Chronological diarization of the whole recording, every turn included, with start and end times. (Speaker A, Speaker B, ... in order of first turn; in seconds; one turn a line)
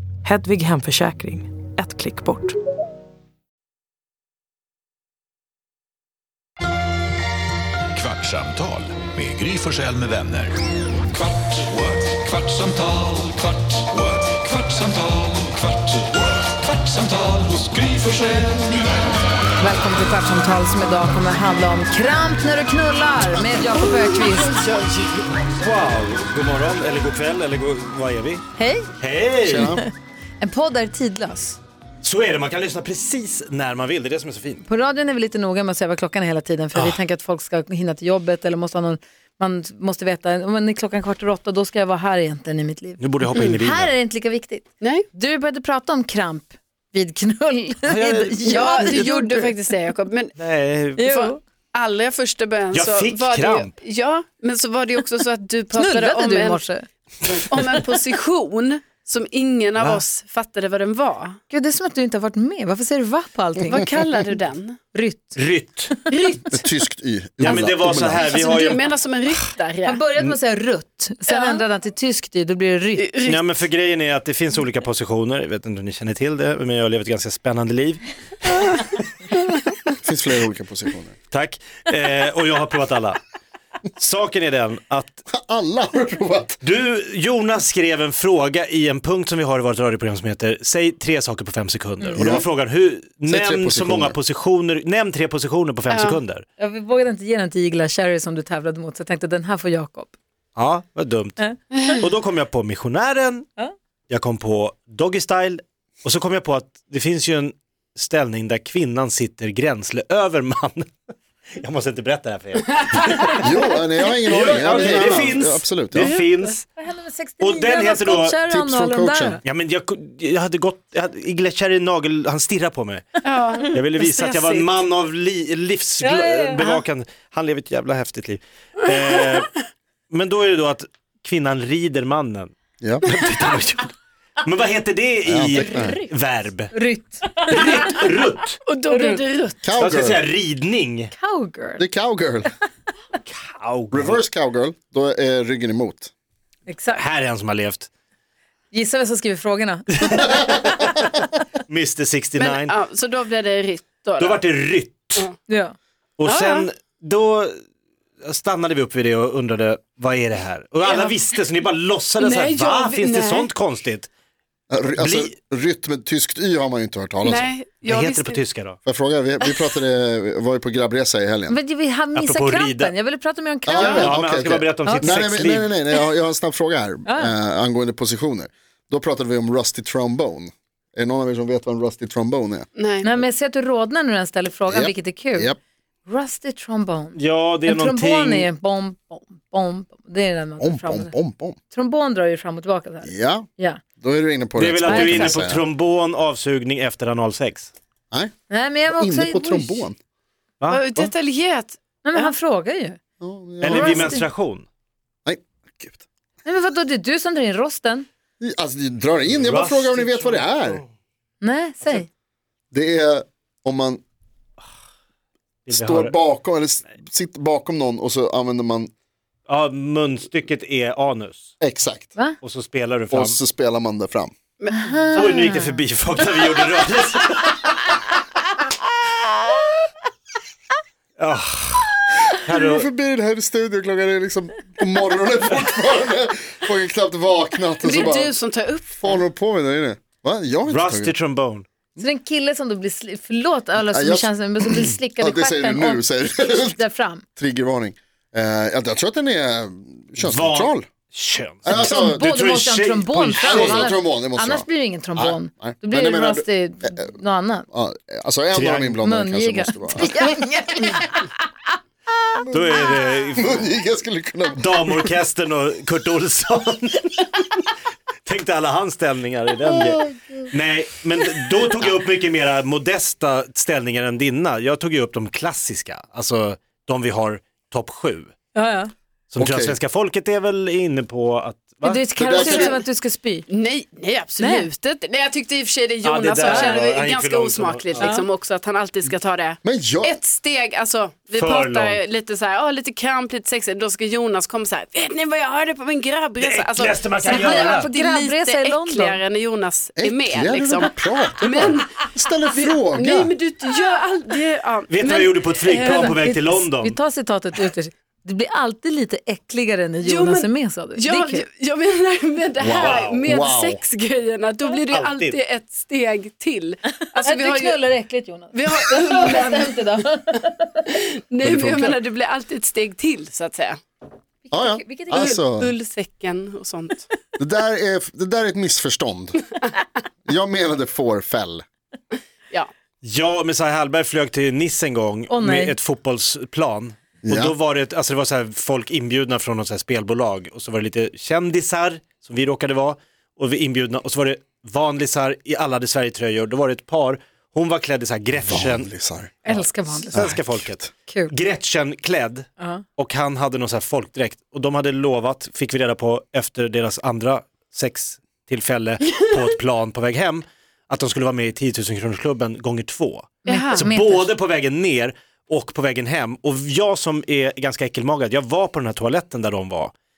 Speaker A: 0.2-2.6
Speaker B: 7.9-10.6
Speaker B: 12.4-13.0
Speaker B: 14.3-15.4
Speaker B: 17.0-18.4
Speaker C: 19.6-24.6
Speaker D: 23.8-28.4
Speaker C: 28.6-28.9
Speaker D: 29.0-29.8
Speaker E: 29.4-29.8
Speaker C: 30.4-31.6
Speaker D: 32.0-34.6
Speaker C: 34.6-49.8
Speaker D: 43.0-43.9
Speaker F: 43.3-43.6
Speaker D: 47.9-49.1
Speaker F: 48.4-50.3
Speaker D: 50.4-51.0
Speaker C: 51.0-51.4
Speaker F: 51.0-56.6
Speaker D: 52.7-53.7
Speaker C: 55.7-56.9
Speaker F: 57.3-61.4
Speaker C: 61.5-63.9
Speaker F: 63.6-64.8
Speaker C: 64.9-65.4
Speaker D: 65.3-65.9
Speaker F: 66.1-66.6
Speaker E: 66.5-68.3
Speaker D: 67.4-68.9
Speaker F: 67.4-70.0
Speaker C: 69.8-73.1
Speaker F: 71.3-71.6
Speaker F: 73.0-73.5
Speaker D: 73.2-78.8
Speaker E: 80.0-81.2
Speaker D: 81.3-83.2
Speaker D: 84.0-85.2
Speaker E: 85.3-86.6
Speaker D: 86.6-96.4
Speaker E: 92.1-92.5
Speaker E: 93.3-94.2
Speaker F: 95.9-96.2
Speaker C: 96.6-100.1
Speaker D: 100.5-103.5
Speaker C: 101.4-101.8
Speaker D: 104.1-110.9
Speaker D: 111.6-113.4
Speaker E: 113.4-116.1
Speaker D: 114.0-116.6
Speaker F: 114.5-115.3
Speaker F: 115.9-116.5
Speaker C: 116.7-119.4
Speaker D: 117.4-118.4
Speaker E: 118.4-119.4
Speaker D: 119.4-129.5
Speaker F: 123.2-124.7
Speaker C: 126.0-126.8
Speaker D: 130.1-132.5
Speaker E: 132.8-133.1
Speaker D: 133.0-133.9
Speaker D: 134.4-136.7
Speaker E: 135.2-136.0
Speaker C: 135.5-136.1
Speaker C: 136.7-138.0
Speaker D: 137.5-138.6
Speaker F: 138.7-139.6
Speaker C: 138.9-139.2
Speaker E: 139.6-140.2
Speaker D: 139.8-141.1
Speaker C: 141.1-141.8
Speaker E: 141.8-142.5
Speaker D: 143.2-144.2
Speaker E: 143.9-146.1
Speaker C: 146.7-147.0
Speaker D: 146.9-147.9
Speaker C: 148.7-150.8
Speaker D: 151.7-152.7
Speaker F: 152.3-154.5
Speaker D: 154.2-155.3
Speaker C: 155.5-155.7
Speaker D: 156.2-157.6
Speaker F: 156.2-156.7
Speaker D: 158.2-164.1
Speaker F: 160.8-161.2
Speaker F: 162.2-163.5
Speaker E: 164.7-167.5
Speaker D: 164.9-165.3
Speaker F: 167.2-168.4
Speaker D: 167.8-168.8
Speaker E: 168.8-171.6
Speaker C: 171.5-174.1
Speaker D: 172.1-172.9
Speaker E: 173.7-182.7
Speaker D: 173.8-175.7
Speaker F: 173.8-174.1
Speaker C: 174.8-175.2
Speaker C: 177.1-177.3
Speaker F: 182.8-183.1
Speaker C: 183.0-185.5
Speaker E: 184.7-185.6
Speaker C: 186.1-193.8
Speaker D: 187.1-188.5
Speaker E: 190.6-191.6
Speaker E: 193.0-195.6
Speaker D: 194.6-197.7
Speaker C: 194.8-195.4
Speaker C: 198.5-199.9
Speaker E: 198.9-199.9
Speaker F: 200.7-202.3
Speaker C: 202.0-203.0
Speaker E: 203.2-204.3
Speaker D: 203.6-204.6
Speaker C: 203.6-204.2
Speaker E: 205.2-206.0
Speaker C: 206.4-208.1
Speaker E: 208.4-210.8
Speaker D: 209.2-210.8
Speaker C: 211.4-212.1
Speaker E: 212.7-214.0
Speaker D: 215.7-216.2
Speaker E: 215.7-218.9
Speaker D: 219.5-221.5
Speaker E: 221.6-222.1
Speaker D: 222.4-223.4
Speaker E: 223.1-224.3
Speaker F: 224.6-225.5
Speaker C: 224.7-225.8
Speaker D: 225.1-228.0
Speaker D: 231.2-232.9
Speaker E: 232.5-238.3
Speaker F: 237.8-239.2
Speaker E: 239.0-241.1
Speaker D: 240.7-241.7
Speaker C: 242.0-247.2
Speaker E: 243.9-246.8
Speaker E: 247.3-250.8
Speaker D: 250.2-253.9
Speaker E: 251.6-252.3
Speaker C: 251.7-257.7
Speaker E: 253.4-257.1
Speaker E: 257.7-261.0
Speaker D: 258.5-259.0
Speaker C: 259.0-261.3
Speaker E: 262.4-265.1
Speaker D: 262.5-263.7
Speaker D: 264.6-267.6
Speaker D: 268.2-278.3
Speaker E: 269.7-270.5
Speaker C: 278.5-278.9
Speaker D: 279.3-282.5
Speaker E: 279.4-279.8
Speaker C: 281.8-283.5
Speaker E: 282.1-282.7
Speaker F: 282.4-282.8
Speaker F: 283.5-306.2
Speaker C: 284.4-284.7
Speaker D: 286.0-288.1
Speaker C: 286.4-286.7
Speaker C: 288.0-288.2
Speaker E: 289.6-290.2
Speaker D: 291.3-292.0
Speaker D: 296.4-297.9
Speaker C: 297.2-299.2
Speaker E: 300.0-303.3
Speaker D: 304.9-307.0
Speaker C: 306.1-311.4
Speaker F: 310.0-317.8
Speaker E: 312.6-313.8
Speaker D: 312.8-313.2
Speaker D: 314.9-315.4
Speaker C: 317.2-320.7
Speaker F: 318.5-319.9
Speaker F: 320.9-323.8
Speaker D: 321.5-321.9
Speaker C: 324.4-325.4
Speaker E: 324.5-325.7
Speaker F: 325.1-327.1
Speaker E: 327.4-329.4
Speaker E: 330.2-331.6
Speaker D: 333.0-348.9
Speaker C: 335.3-335.8
Speaker E: 337.2-337.5
Speaker E: 348.4-350.9
Speaker C: 349.4-350.3
Speaker D: 350.1-369.9
Speaker C: 351.1-351.3
Speaker C: 352.6-352.8
Speaker C: 363.4-364.3
Speaker F: 363.5-363.9